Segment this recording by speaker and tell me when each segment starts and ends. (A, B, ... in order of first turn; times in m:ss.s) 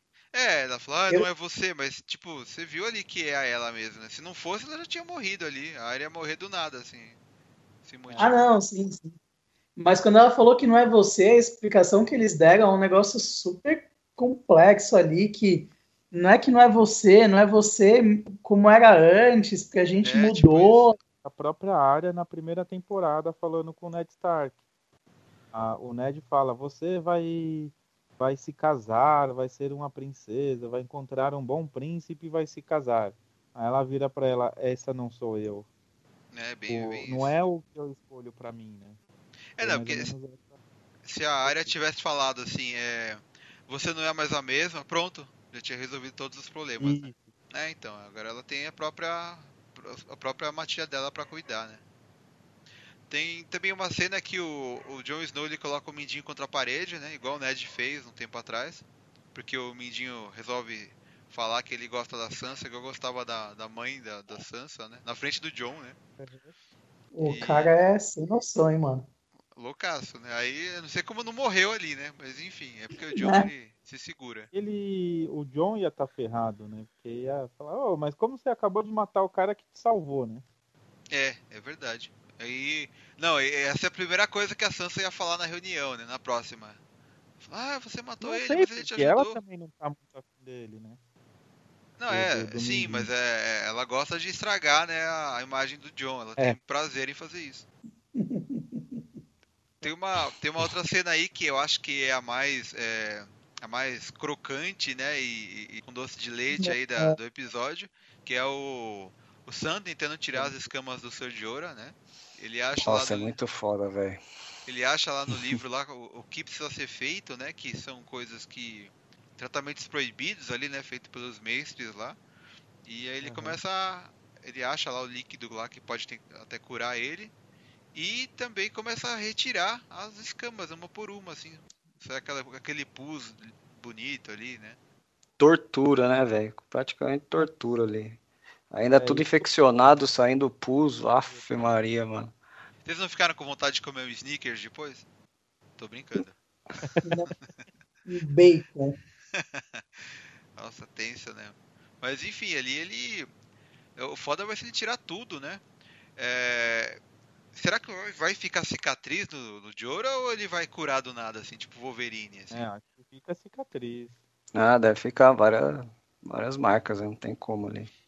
0:00.3-0:07.2 A
0:07.8-0:08.4 A
0:08.2-0:09.2 B
0:09.8-0:21.0 B
0:20.0-0:20.9 A
0:21.2-0:24.6 C
0:25.5-0:35.7 C
0:36.3-0:37.3 A
0:36.7-0:39.0 C
0:39.6-0:40.1 A
0:39.6-0:40.6 C
0:41.0-0:51.8 A
0:41.4-0:41.8 C
0:46.8-0:47.3 C
0:53.1-1:06.0 A
1:06.2-1:06.5 C
1:07.1-1:09.1 B
1:07.2-1:07.7 A
1:09.6-1:14.5 A
1:13.1-1:13.5 B
1:14.5-1:20.4 C
1:21.1-1:26.8 A
1:27.4-1:29.4 A
1:28.2-1:31.0 C
1:32.0-1:37.7 A
1:32.1-1:33.1 C
1:38.1-1:39.0 B
1:39.8-1:53.3 A
1:46.5-1:47.2 B
1:52.8-1:54.2 D
1:54.6-2:02.2 A
2:02.8-2:07.3 A
2:03.2-2:03.6 C
2:07.9-2:14.8 A
2:15.4-2:18.2 D
2:18.7-2:22.3 D
2:18.9-2:19.5 C
2:22.8-2:25.0 A
2:25.8-2:26.4 A
2:27.0-2:27.3 B
2:28.1-2:29.0 B
2:29.3-2:29.8 A
2:30.6-2:33.3 A
2:34.0-2:35.6 A
2:36.2-2:37.0 A
2:37.5-2:42.6 A
2:42.5-2:44.2 C
2:44.5-2:47.9 D